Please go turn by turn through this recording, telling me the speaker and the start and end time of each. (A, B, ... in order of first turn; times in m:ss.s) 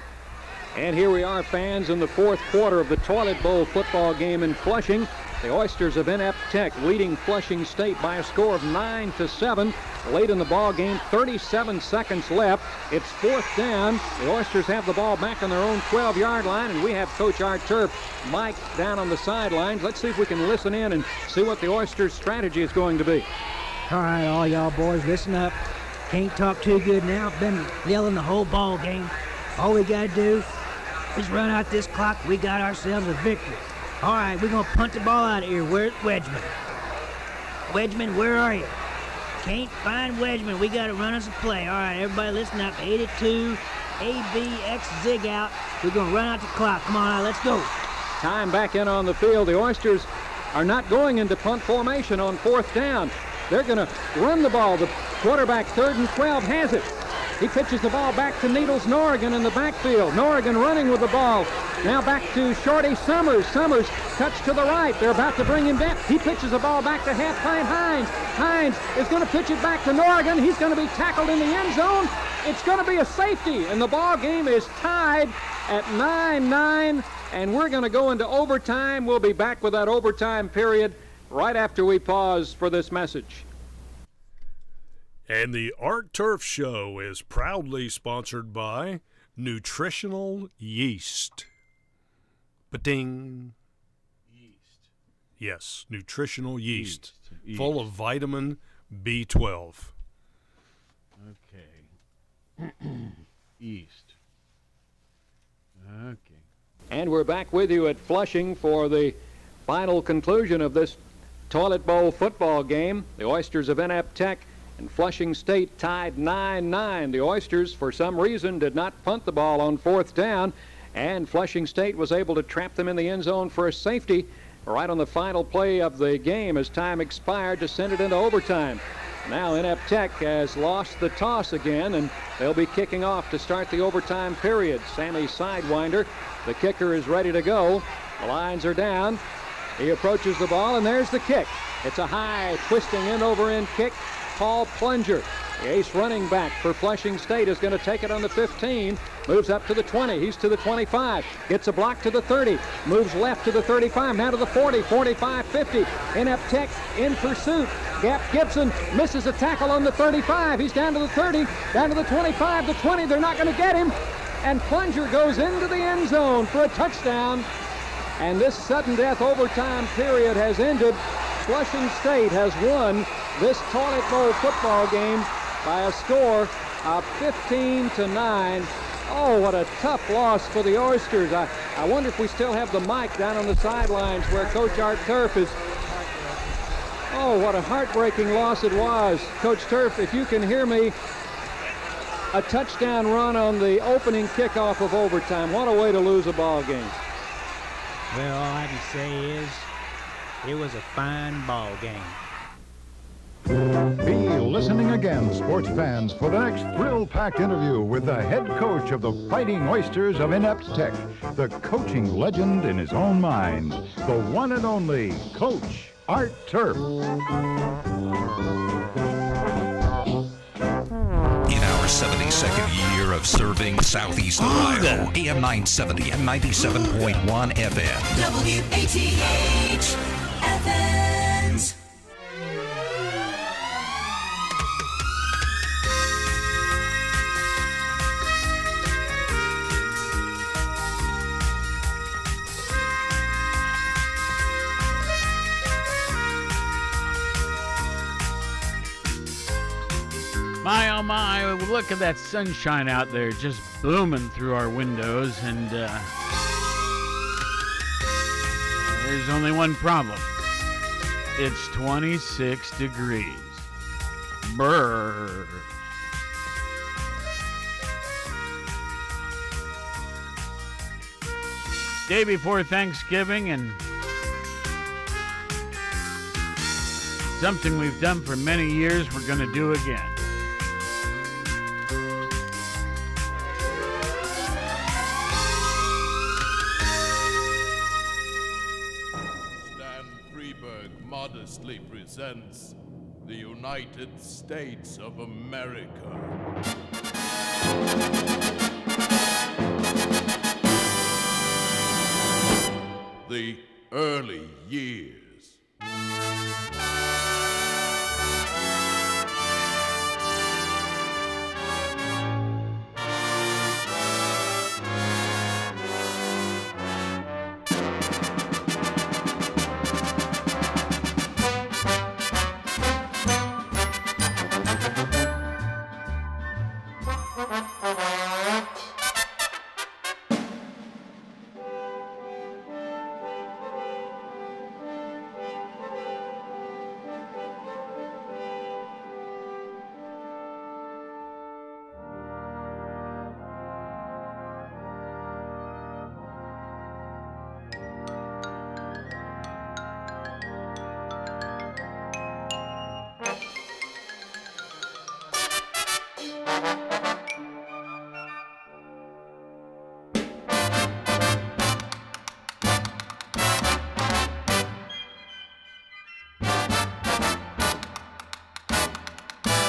0:00.7-0:23.3 A
0:23.9-0:30.5 B
0:31.1-0:36.5 B
0:37.7-0:38.7 B
0:39.4-0:47.7 B
0:48.2-0:56.9 A
0:57.4-1:23.4 A
1:25.3-1:31.5 C
1:32.7-1:33.5 C
1:34.3-1:34.8 D
1:35.4-1:39.9 C
1:36.7-1:37.9 D
1:41.2-1:41.9 D
1:42.6-1:44.1 D
1:45.8-1:46.4 D
1:46.9-1:51.0 A
1:51.5-2:19.2 A
2:19.8-2:47.5 A
2:48.2-3:05.6 A
3:07.1-3:11.0 A
3:12.3-3:17.0 A
3:18.1-3:19.7 B
3:20.4-3:22.2 B
3:24.0-3:36.9 E
3:41.4-3:48.3 F
3:48.3-3:49.7 G
3:50.4-3:51.5 G
4:10.6-4:16.1 D
4:18.8-4:20.3 D
4:21.4-4:23.7 D
4:24.4-4:25.6 D
4:32.1-4:33.8 D
4:37.3-4:40.2 D
4:49.6-4:56.4 H
5:03.2-5:05.6 H